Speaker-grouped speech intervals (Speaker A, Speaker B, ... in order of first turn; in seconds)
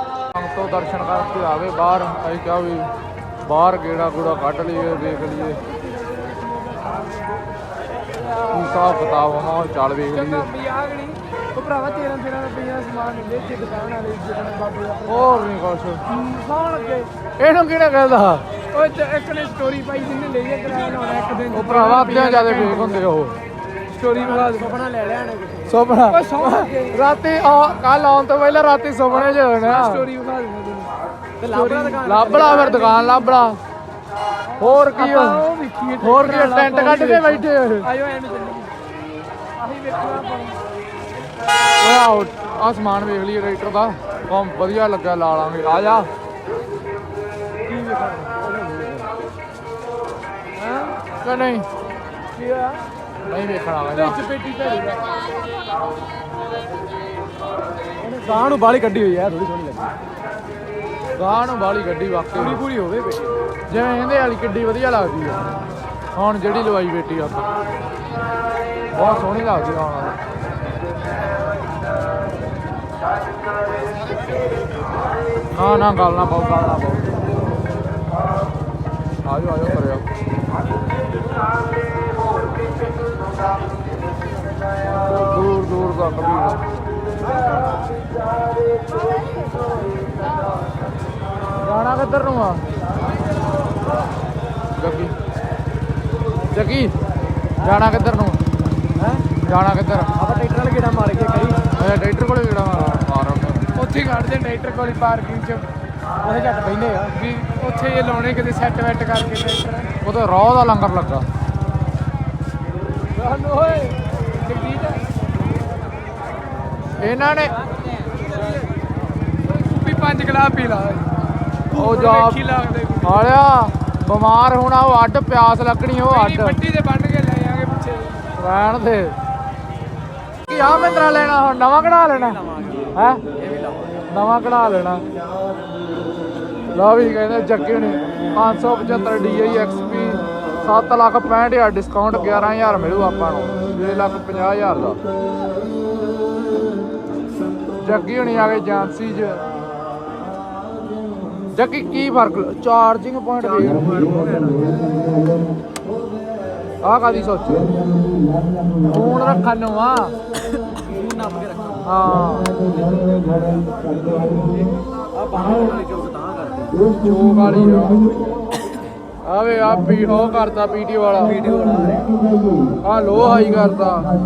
Speaker A: 0.3-2.9, 3.5-5.6, 8.5-10.5, 15.0-16.0, 17.4-18.4, 21.5-23.4, 25.7-30.1, 32.0-33.6, 34.6-35.4, 36.0-37.9, 41.8-46.1, 51.2-51.6, 53.3-54.2, 61.2-62.6, 63.7-65.4, 66.1-67.5, 68.9-70.1, 75.5-77.1, 79.2-80.0, 85.1-86.6, 91.6-92.6, 94.8-95.1, 96.5-96.9, 97.6-98.4, 99.4-100.1, 101.7-103.7, 110.0-111.2, 117.0-117.6, 121.7-122.4, 123.0-126.6, 128.3-129.1, 130.5-132.4, 132.9-133.2, 134.1-135.0, 136.7-145.0, 147.8-149.4, 151.5-154.0, 156.8-157.7, 158.8-160.1, 161.8-162.5, 166.9-168.0, 169.2-171.4, 172.8-174.1
Speaker B: 5.2-7.8, 10.1-15.3, 16.1-17.1, 18.7-23.1, 23.9-24.7, 26.1-27.0, 29.1-33.3, 34.5-38.7, 39.5-40.6, 50.6-51.0, 52.3-52.9, 53.9-55.4, 103.7-105.7, 107.1-109.9, 113.1-115.1, 119.4-123.4, 126.0-128.3
Speaker C: 24.1-25.9, 31.4-32.9, 47.6-49.2, 58.0-59.9, 62.3-63.5, 87.3-87.8, 99.0-99.3, 100.1-101.6, 102.7-103.0, 106.2-107.2, 117.6-118.8, 132.1-134.1, 153.4-155.0, 160.8-161.9, 162.7-163.0, 165.1-166.8, 171.2-172.1